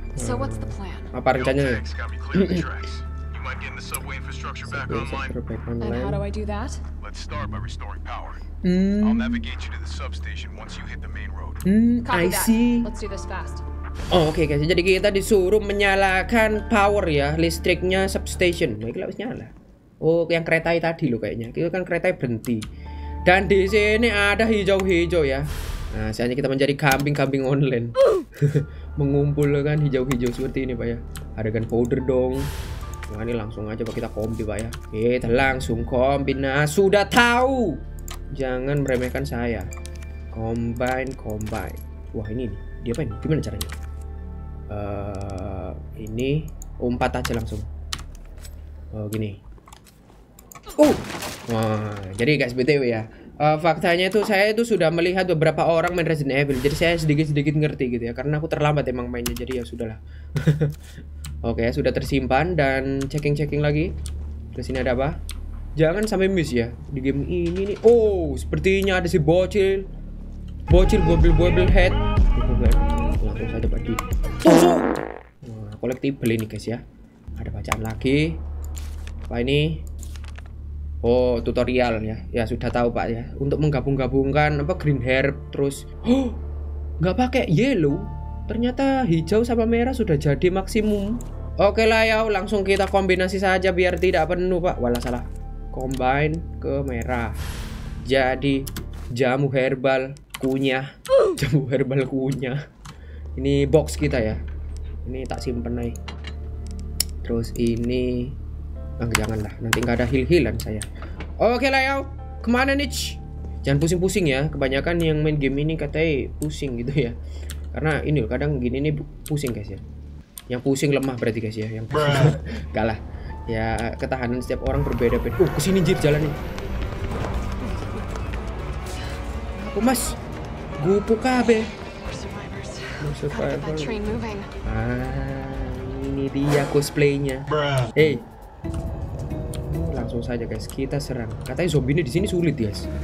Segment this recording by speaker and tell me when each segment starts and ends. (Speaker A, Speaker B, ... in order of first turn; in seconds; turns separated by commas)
Speaker A: 0.2-1.1, Speaker B: 0.2-2.6, Speaker C: 1.3-5.4, Speaker B: 4.6-6.2, Speaker A: 5.8-6.8, Speaker C: 7.0-8.4, Speaker B: 8.6-9.4, Speaker C: 9.0-11.6, Speaker B: 11.6-12.9, Speaker A: 12.1-13.6, Speaker B: 14.1-22.6, Speaker B: 23.2-32.5, Speaker B: 33.1-37.8, Speaker B: 38.3-39.7, Speaker B: 40.3-43.7, Speaker B: 44.7-47.7, Speaker B: 48.9-49.4, Speaker B: 50.8-60.7, Speaker B: 61.4-63.9, Speaker B: 64.5-65.2, Speaker B: 65.8-69.8, Speaker B: 70.7-74.9, Speaker B: 75.4-76.8, Speaker B: 77.4-78.4, Speaker B: 79.3-79.8, Speaker B: 81.0-86.4, Speaker B: 87.0-97.4, Speaker B: 98.0-102.6, Speaker B: 103.4-104.4, Speaker B: 105.0-105.9, Speaker B: 107.2-108.3, Speaker B: 109.0-110.9, Speaker B: 111.4-117.1, Speaker B: 117.7-119.8, Speaker B: 120.5-126.3, Speaker A: 127.6-128.0, Speaker B: 129.6-130.2, Speaker B: 130.8-131.7, Speaker A: 132.0-134.5, Speaker B: 133.0-134.1, Speaker B: 134.6-138.2, Speaker B: 139.7-142.9